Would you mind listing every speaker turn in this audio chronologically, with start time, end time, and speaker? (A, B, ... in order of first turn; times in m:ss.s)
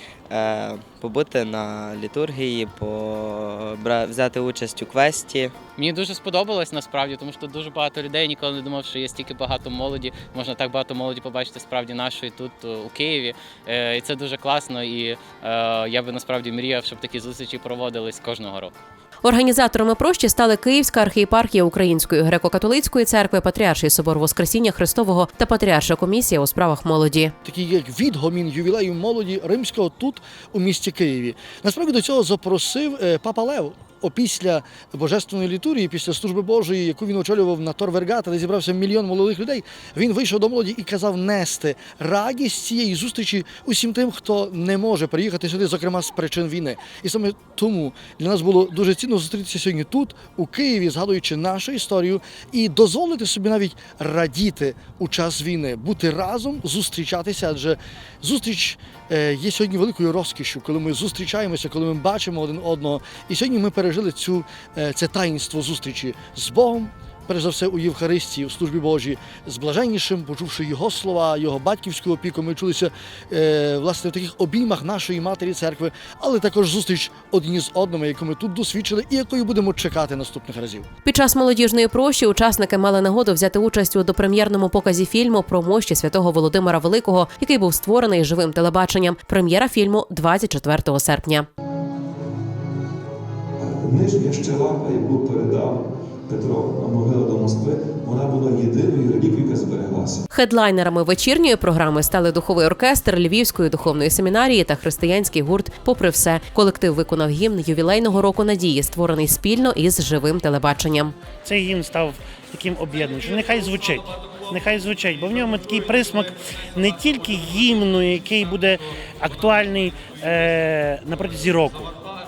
0:00.3-0:05.6 A
0:05.8-0:18.8 B
0:19.2-0:27.3 C
0:27.4-1:20.9 D
1:21.0-1:31.5 C
1:33.6-1:40.2 E
1:40.3-1:51.1 C
1:51.4-2:01.9 F